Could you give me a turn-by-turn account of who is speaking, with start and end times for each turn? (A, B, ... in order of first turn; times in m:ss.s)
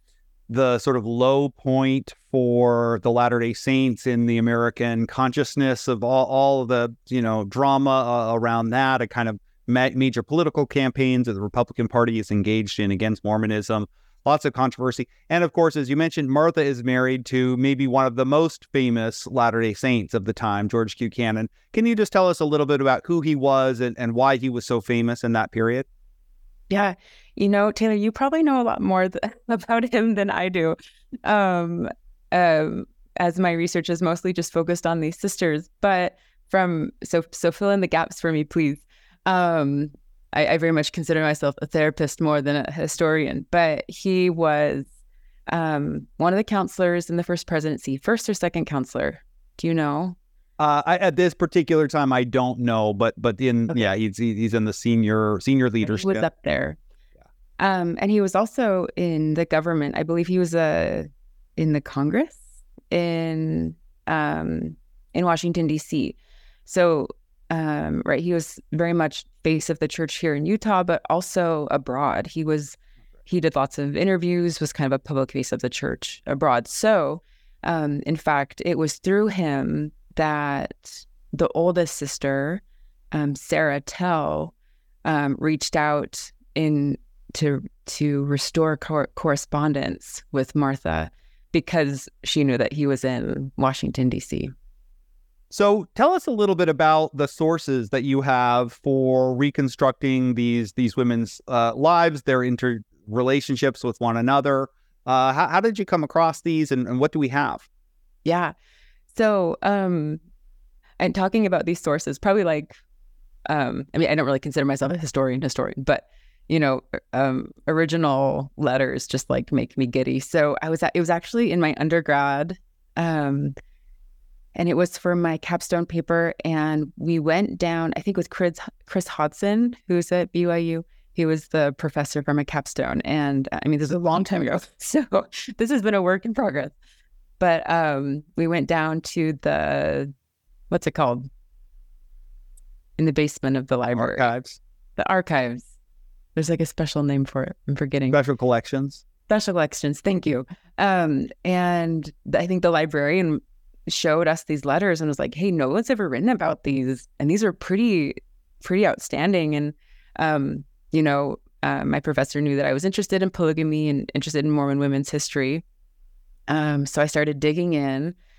0:00.5-0:25.8 A
0:26.7-0:44.9 B
0:45.5-0:50.2 B
0:50.6-0:56.2 A
0:55.8-0:56.8 B
0:57.6-1:24.5 B
1:25.0-1:34.5 B
1:35.5-1:47.7 A
1:48.2-1:48.5 B
1:49.1-1:50.2 B
1:51.0-1:52.7 B
1:53.4-2:03.5 B
2:04.5-2:16.7 B
2:17.4-2:20.1 B
2:20.7-2:21.3 B
2:23.0-2:24.3 B
2:23.9-2:24.6 A
2:25.0-2:25.7 B
2:26.3-2:28.2 B
2:28.1-2:29.0 A
2:29.3-2:45.6 B
2:46.5-2:48.1 B